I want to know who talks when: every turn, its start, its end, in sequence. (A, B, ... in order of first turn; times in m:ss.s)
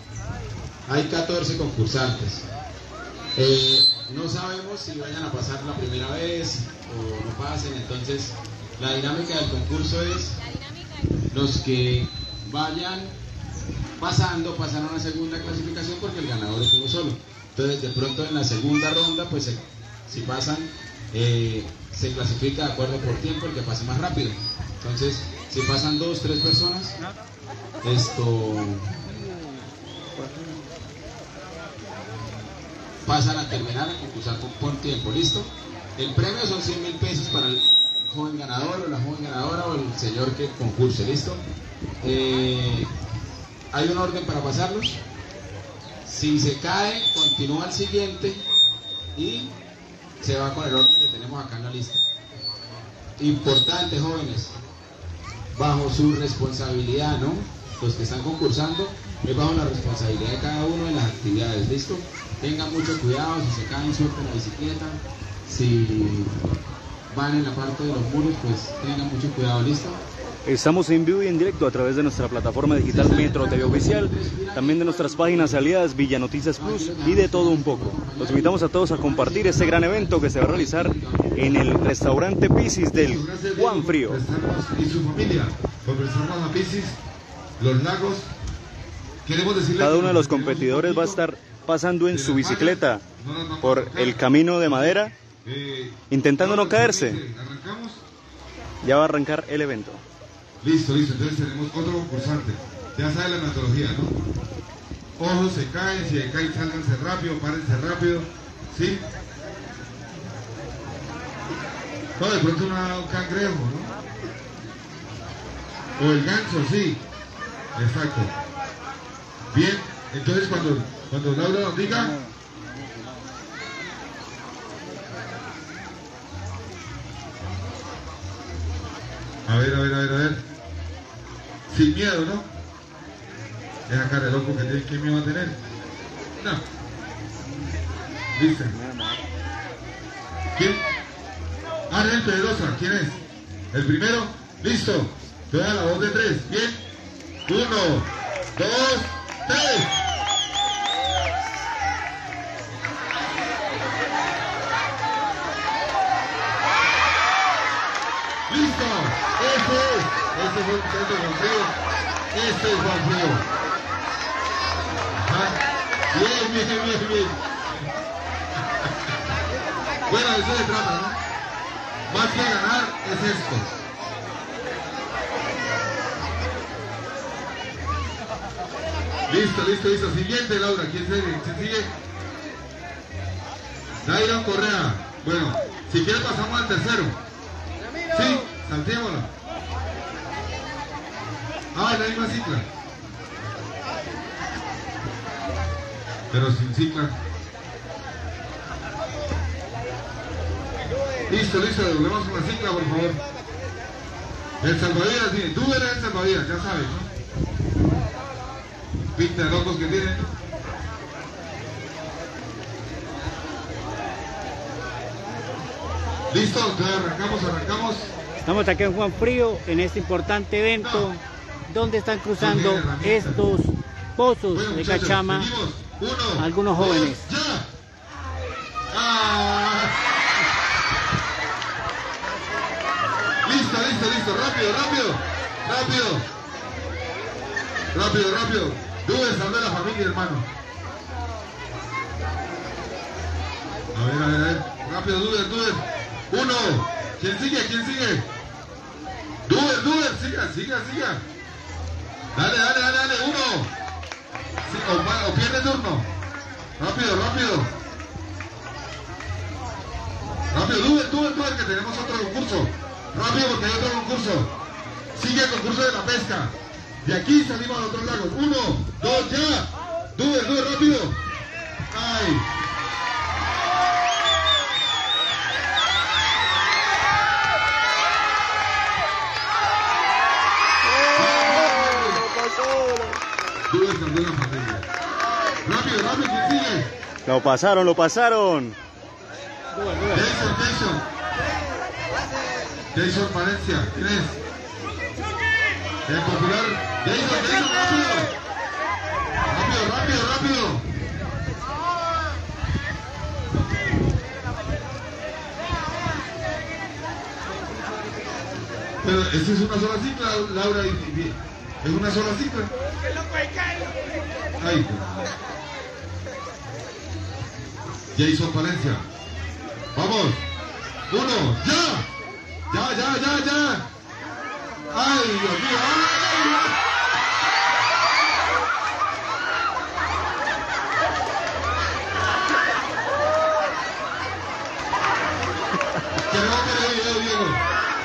0:00.9-0:02.4 A
0:03.3-0:10.4 A
0:11.3-0:13.2 A
0:14.0-0:27.0 A
0:27.8-0:28.9 A
0:33.0-0:41.4 A
0:42.0-0:42.9 A
0:43.7-0:45.0 A
0:46.0-0:48.4 A
0:49.2-0:49.5 A
0:50.2-0:52.0 A
0:53.2-0:54.6 A
0:55.5-1:06.3 A
1:07.1-1:10.0 A
1:10.4-1:24.2 B
1:12.9-1:15.7 A
1:16.6-1:21.9 A
1:22.9-1:27.0 C
1:27.6-1:28.3 C
1:29.2-1:31.2 C
1:29.8-1:33.0 B
1:32.1-1:38.0 C
1:33.6-1:35.1 B
1:36.1-1:37.2 B
1:38.8-1:40.0 B
1:40.6-1:44.2 C
1:45.2-1:49.0 C
1:52.2-1:53.9 C
1:56.0-1:57.0 C
1:57.7-1:58.3 C
1:59.5-2:02.2 C
2:09.4-2:10.4 C
2:11.7-2:12.5 C
2:13.9-2:15.6 C
2:16.4-2:16.6 C
2:18.4-2:18.8 C
2:20.5-2:20.8 C
2:21.9-2:26.8 C
2:27.5-2:30.0 C
2:38.5-2:41.7 C
2:42.3-2:43.5 C
2:45.2-2:45.6 C
2:46.1-2:47.4 C
2:50.1-2:51.2 C
2:52.1-2:53.7 C
2:59.3-3:01.9 C
3:04.0-3:07.2 C
3:08.1-3:09.3 C
3:11.7-3:12.7 C
3:16.3-3:17.2 C
3:21.3-3:23.2 C
3:24.6-3:27.1 C
3:29.1-3:30.3 C
3:36.3-3:38.1 C
3:38.4-3:45.5 D
3:40.8-3:41.1 C
3:42.4-3:43.4 C
3:44.5-3:47.7 C
3:46.4-3:47.3 D
3:48.9-3:50.0 C
3:53.4-3:56.3 C
3:57.9-4:00.5 C
4:03.9-4:08.3 C
4:09.5-4:11.2 C
4:12.3-4:13.7 C
4:14.6-4:16.1 C
4:16.8-4:17.7 C
4:20.5-4:24.5 C
4:25.1-4:31.2 C
4:31.9-4:32.5 C
4:41.1-4:42.3 C
4:43.7-4:44.9 C
4:45.6-4:46.9 C
4:47.2-4:48.8 B
4:50.1-4:51.0 C
4:52.9-4:54.4 C
4:56.0-4:58.3 C
4:59.5-5:00.9 C
5:09.0-5:12.7 C
5:14.6-5:15.3 C
5:18.1-5:19.0 C
5:19.9-5:20.4 C
5:21.1-5:22.1 C
5:22.7-5:23.9 C
5:24.9-5:26.7 C
5:36.3-5:37.6 C